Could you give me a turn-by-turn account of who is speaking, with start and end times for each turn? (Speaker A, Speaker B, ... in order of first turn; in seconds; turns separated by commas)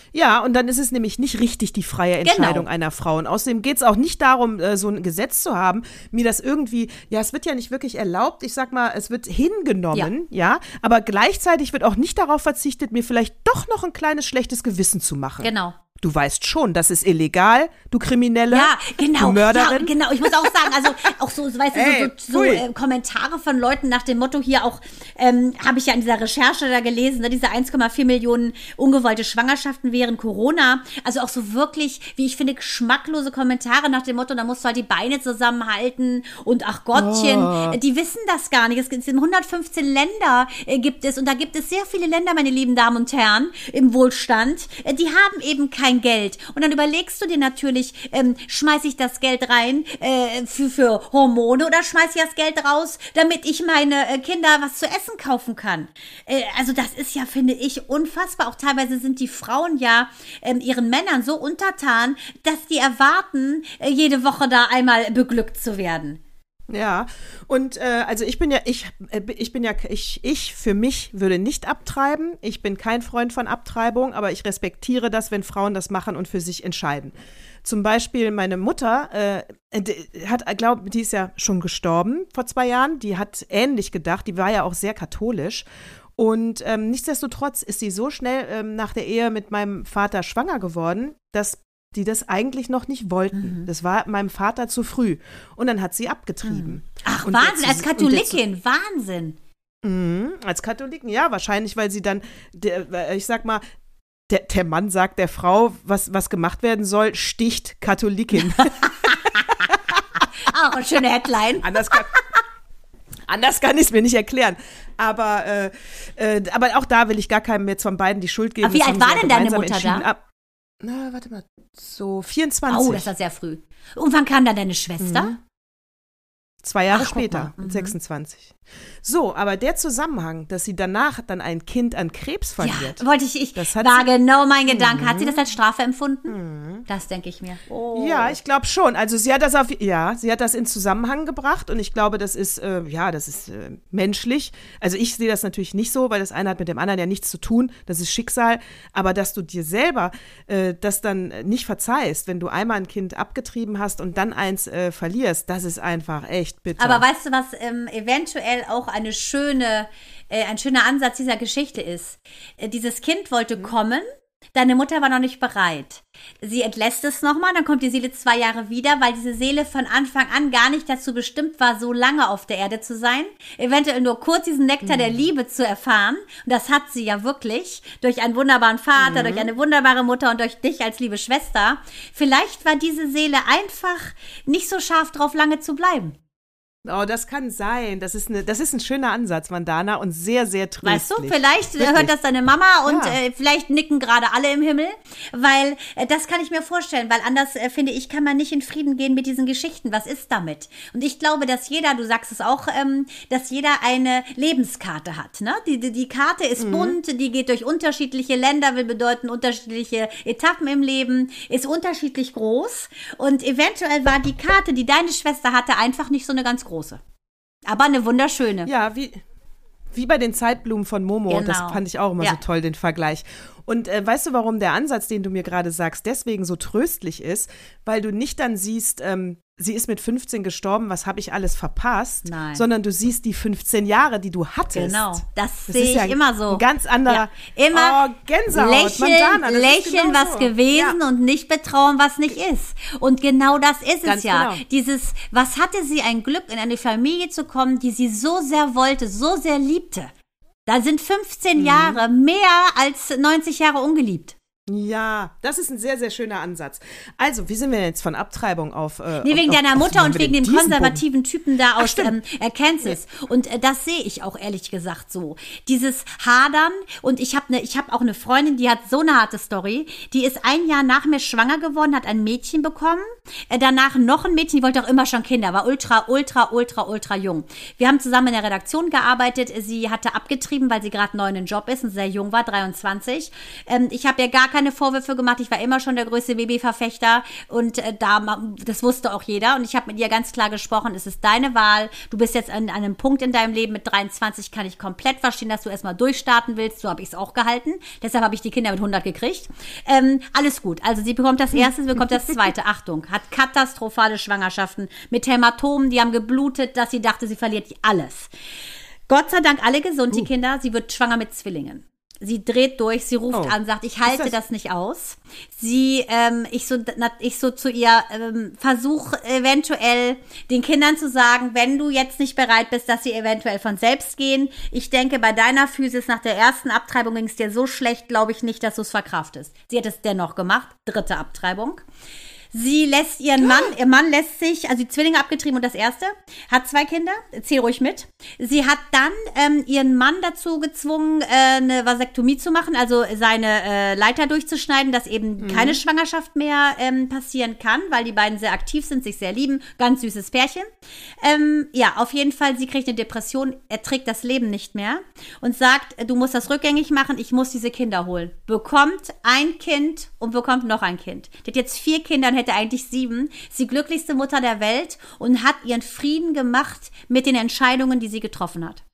Speaker A: 0.1-21.1, Speaker B: 2.2-2.6, Speaker B: 15.4-15.8, Speaker B: 18.5-66.2, Speaker A: 21.7-22.6, Speaker A: 36.9-37.8, Speaker A: 66.7-85.7, Speaker A: 86.2-98.4, Speaker B: 93.3-93.7, Speaker B: 96.4-99.4, Speaker A: 99.8-103.6, Speaker A: 104.3-108.8, Speaker B: 108.4-109.7, Speaker A: 109.7-110.2, Speaker B: 110.3-112.0, Speaker A: 111.6-112.2, Speaker A: 113.3-120.2, Speaker B: 118.6-120.1, Speaker A: 120.8-123.1, Speaker B: 122.7-125.3, Speaker A: 125.0-125.4, Speaker A: 126.6-133.0, Speaker B: 126.9-127.9, Speaker B: 132.6-138.4, Speaker A: 133.6-134.1, Speaker A: 134.7-135.4, Speaker A: 136.3-136.8, Speaker A: 137.9-157.0, Speaker B: 156.8-186.2, Speaker A: 174.8-175.2, Speaker A: 179.0-179.5, Speaker A: 186.8-192.1, Speaker B: 190.8-217.0, Speaker A: 192.8-193.2, Speaker A: 206.6-207.0, Speaker B: 217.7-218.7, Speaker A: 218.6-219.2, Speaker A: 219.9-241.0, Speaker B: 221.3-222.4, Speaker B: 232.2-232.6, Speaker B: 234.7-238.0, Speaker B: 238.5-250.1, Speaker A: 244.0-244.6, Speaker B: 250.7-254.3, Speaker A: 251.6-252.0, Speaker A: 254.7-261.0, Speaker B: 259.2-308.3, Speaker A: 261.8-262.1, Speaker A: 301.6-302.4, Speaker B: 309.1-331.8, Speaker A: 314.1-314.3, Speaker B: 332.5-350.7, Speaker A: 333.4-333.7, Speaker A: 345.4-345.8, Speaker B: 351.2-368.8